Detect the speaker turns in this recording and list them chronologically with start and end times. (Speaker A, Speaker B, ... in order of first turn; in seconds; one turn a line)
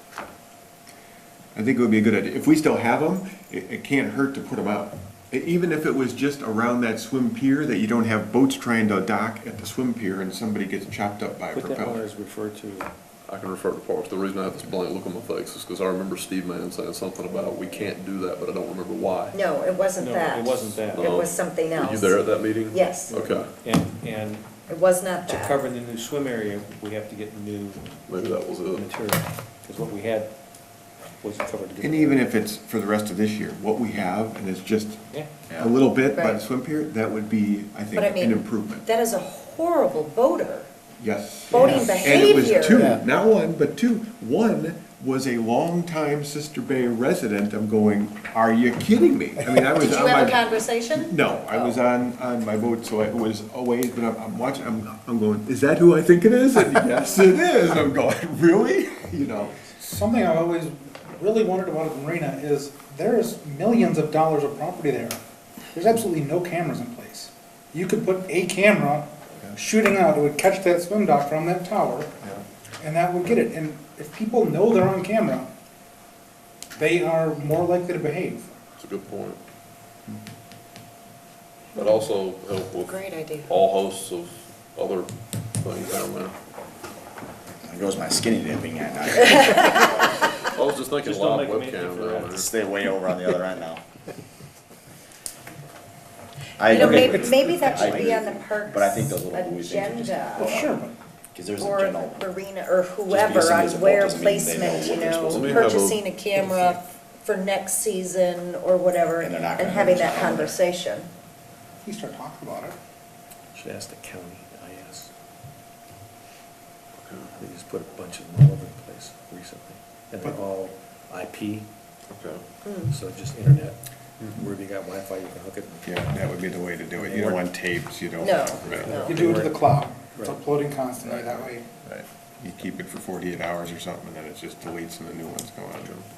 Speaker A: 1.6-12.0
Speaker B: 11.5-12.9
Speaker C: 13.3-19.4
Speaker D: 19.3-23.2
Speaker B: 20.0-21.2
Speaker C: 20.9-23.5
Speaker B: 23.1-24.5
Speaker D: 24.7-25.6
Speaker B: 25.3-28.0
Speaker C: 28.1-28.9
Speaker B: 28.7-30.3
Speaker B: 31.2-32.2
Speaker A: 31.8-38.9
Speaker E: 35.5-35.8
Speaker D: 36.1-36.4
Speaker D: 38.0-40.7
Speaker A: 41.0-59.6
Speaker D: 41.5-43.0
Speaker B: 41.6-42.1
Speaker D: 49.7-51.8
Speaker F: 59.8-65.2
Speaker F: 65.7-72.2
Speaker F: 72.8-75.5
Speaker F: 76.8-78.5
Speaker C: 78.8-79.4
Speaker C: 81.8-86.3
Speaker D: 81.8-82.0
Speaker D: 82.8-83.5
Speaker E: 87.7-90.0
Speaker D: 89.3-90.0
Speaker C: 90.3-92.5
Speaker B: 91.0-92.5
Speaker E: 92.3-93.8
Speaker E: 96.6-100.8
Speaker D: 96.7-100.6
Speaker F: 96.9-97.8
Speaker F: 100.3-101.0
Speaker E: 101.3-102.3
Speaker D: 101.6-111.1
Speaker E: 103.1-105.6
Speaker C: 105.3-106.0
Speaker E: 109.2-110.6
Speaker F: 111.8-112.8
Speaker B: 113.5-115.1
Speaker B: 117.3-121.7
Speaker C: 122.1-122.4
Speaker D: 122.7-122.9
Speaker B: 122.9-126.0
Speaker A: 125.8-128.9
Speaker B: 127.0-127.4
Speaker D: 128.2-129.3
Speaker B: 128.8-130.4
Speaker F: 129.0-131.7
Speaker A: 131.1-136.0